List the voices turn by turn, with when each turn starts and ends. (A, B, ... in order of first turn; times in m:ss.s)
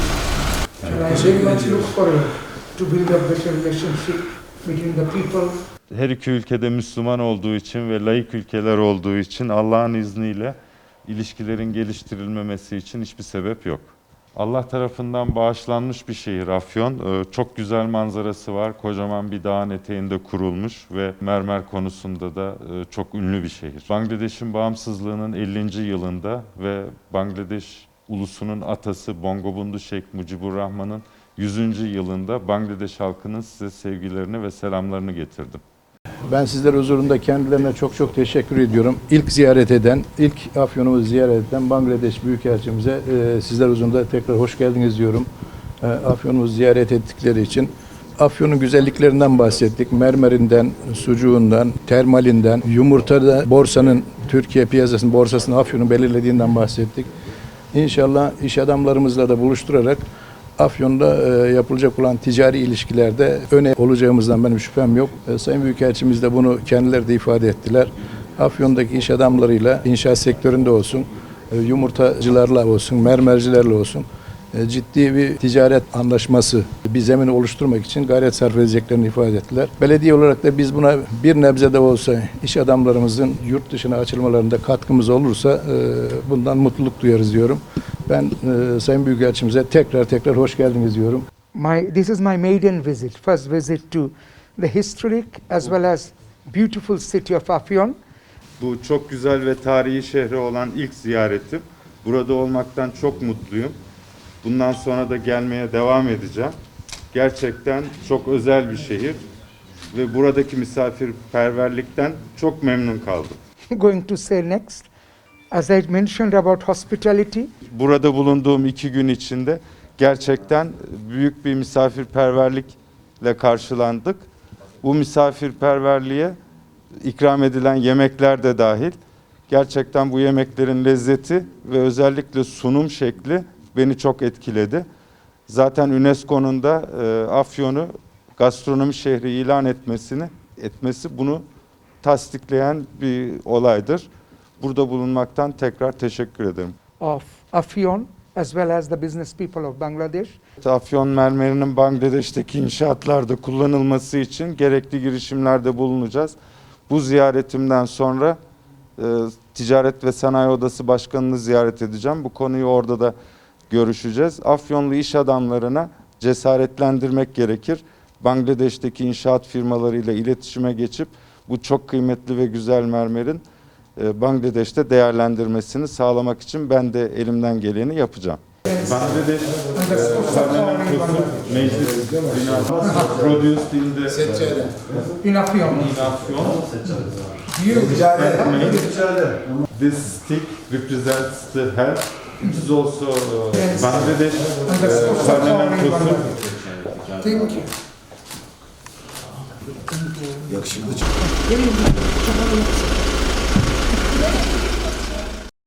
0:00.8-0:05.5 A
0:05.9-0:35.6 B
0:36.3-0:45.3 C
0:45.8-0:57.1 C
0:57.7-1:00.0 C
1:00.6-1:31.2 C
1:31.5-1:38.0 A
1:38.6-1:43.8 B
1:44.4-1:46.5 B
1:47.1-1:49.2 B
1:49.9-1:53.4 B
1:53.7-1:54.9 A
1:55.5-1:57.5 A
1:57.7-2:04.3 B
2:04.8-2:06.4 B
2:07.0-2:08.9 B
2:09.5-2:14.8 B
2:15.5-2:21.4 B
2:22.0-2:24.1 B
2:24.6-2:26.8 B
2:27.0-2:30.4 A
2:30.6-2:36.4 B
2:36.9-2:38.4 B
2:39.0-2:43.1 B
2:43.7-2:53.4 B
2:54.0-3:05.0 B
2:58.6-2:59.1 A
2:59.7-3:01.5 A
3:02.8-3:03.1 A
3:05.0-3:06.0 A
3:05.6-3:06.8 B
3:06.9-3:08.9 A
3:07.7-3:16.6 B
3:13.5-3:14.0 A
3:14.6-3:16.4 A
3:17.1-3:17.7 A
3:20.0-3:20.7 A
3:21.3-3:22.8 A